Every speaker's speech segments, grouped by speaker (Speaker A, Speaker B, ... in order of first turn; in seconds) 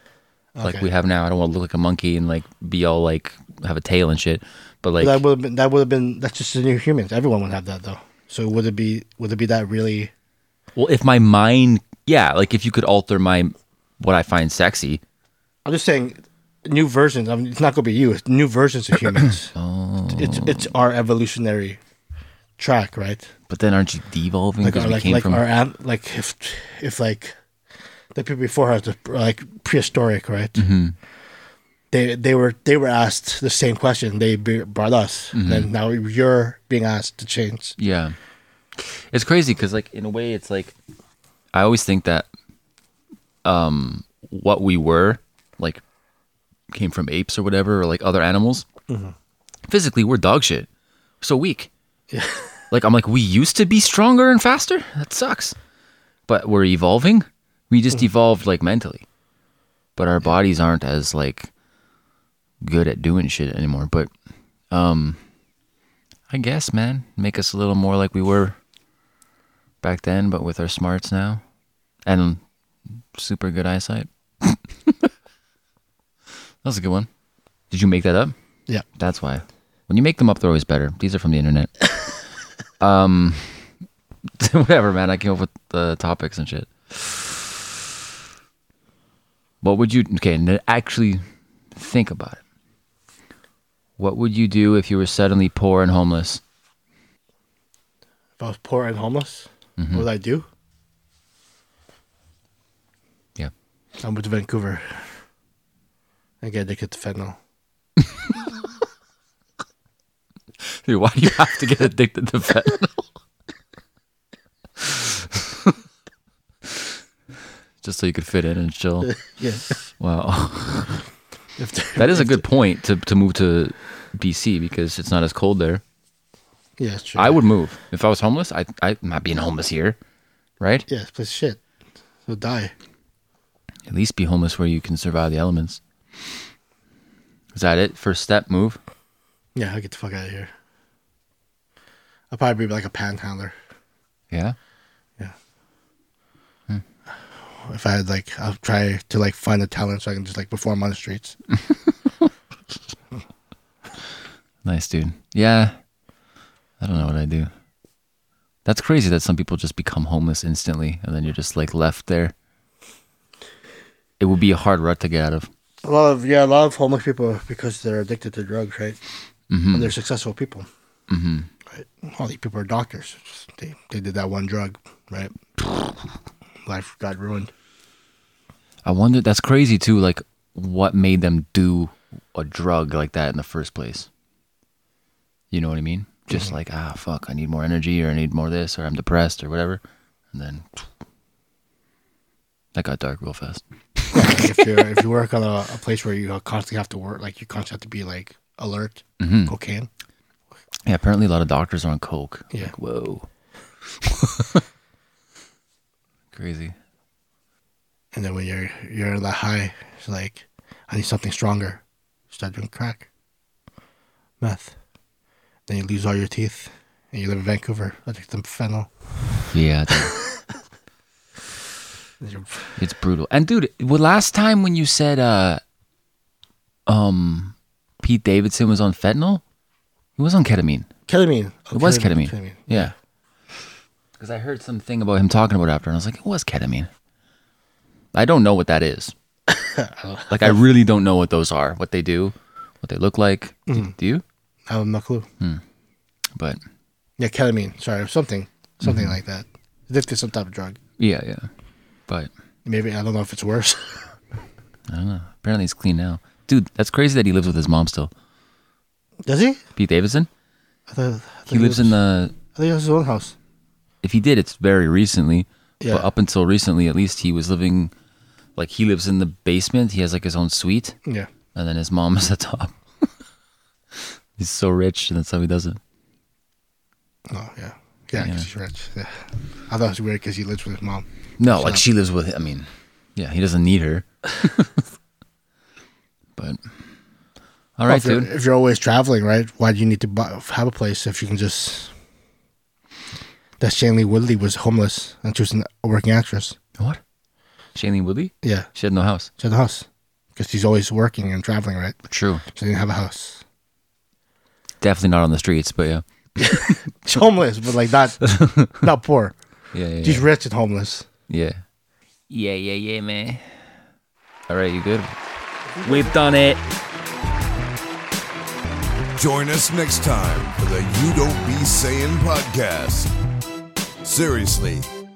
Speaker A: 0.6-0.9, 5.0-10.1, 15.7-19.5, 20.1-21.8, 22.6-23.3, 24.6-27.4, 28.1-30.6, 31.9-37.8, 48.9-49.1, 52.1-52.5, 98.4-100.5, 104.0-105.1, 106.4-107.4, 119.2-119.8, 121.6-122.4, 126.8-127.4, 130.9-131.6, 132.3-132.7, 139.6-140.5, 142.3-143.5, 147.6-151.4, 165.8-169.0, 169.7-170.7, 171.7-175.9, 176.7-177.5, 194.1-199.9, 208.1-213.1, 214.4-214.8, 215.7-218.9, 222.2-222.7, 231.1-232.9, 239.5-240.6, 243.7-243.9, 244.7-245.3, 247.2-250.8, 252.7-254.1, 259.2-259.6, 260.9-262.0, 262.5-263.4, 265.8-266.1, 277.3-281.8, 287.9-291.9, 293.6-296.6, 298.4-298.7, 299.4-303.4, 306.4-309.4, 310.0-311.1, 315.8-316.1
Speaker B: 0.6-5.2, 10.8-15.0, 19.5-20.7, 23.5-25.4, 30.6-31.0, 35.3-35.7, 37.8-38.2, 38.8-40.8, 41.5-42.3, 43.5-45.8, 46.7-48.7, 49.7-50.7, 51.2-51.7, 52.7-55.6, 56.3-59.0, 60.0-61.5, 62.6-64.1, 64.7-65.2, 66.3-68.6, 69.8-71.4, 72.1-72.4, 73.1-75.1, 76.6-77.1, 77.7-78.3, 79.0-82.1, 82.8-83.7, 84.4-87.4, 89.6-91.2, 91.7-92.4, 94.0-96.4, 99.8-100.1, 110.7-113.1, 114.8-115.7, 117.8-119.2, 120.0-121.0, 122.0-125.8, 127.2-130.0, 130.6-130.9, 133.9-135.8, 137.5-138.8, 144.3-144.6, 154.6-155.8, 156.8-157.5, 158.7-162.3, 164.2-165.5, 169.5-169.9, 171.1-171.5, 178.9-184.1, 185.5-189.8, 190.3-190.8, 192.8-194.6, 199.2-199.5, 200.9-203.3, 203.9-204.6, 206.3-206.8, 219.5-220.2, 222.8-225.6, 226.9-229.4, 230.2-230.9, 231.7-232.9, 234.2-236.9, 238.1-239.1, 240.3-244.2, 248.8-249.2, 251.0-251.5, 254.9-258.1, 259.8-260.3, 261.5-262.3, 264.0-267.9, 268.6-271.0, 271.6-273.1, 274.4-275.8, 278.1-278.5, 281.4-284.7, 286.4-286.6, 287.8-288.3, 297.8-299.3, 302.1-302.4, 304.8-307.2, 308.2-308.9, 309.7-310.2, 311.3-311.6, 312.3-313.5, 314.5-315.2, 315.8-316.6
Speaker C: 319.2-323.1, 324.0-324.9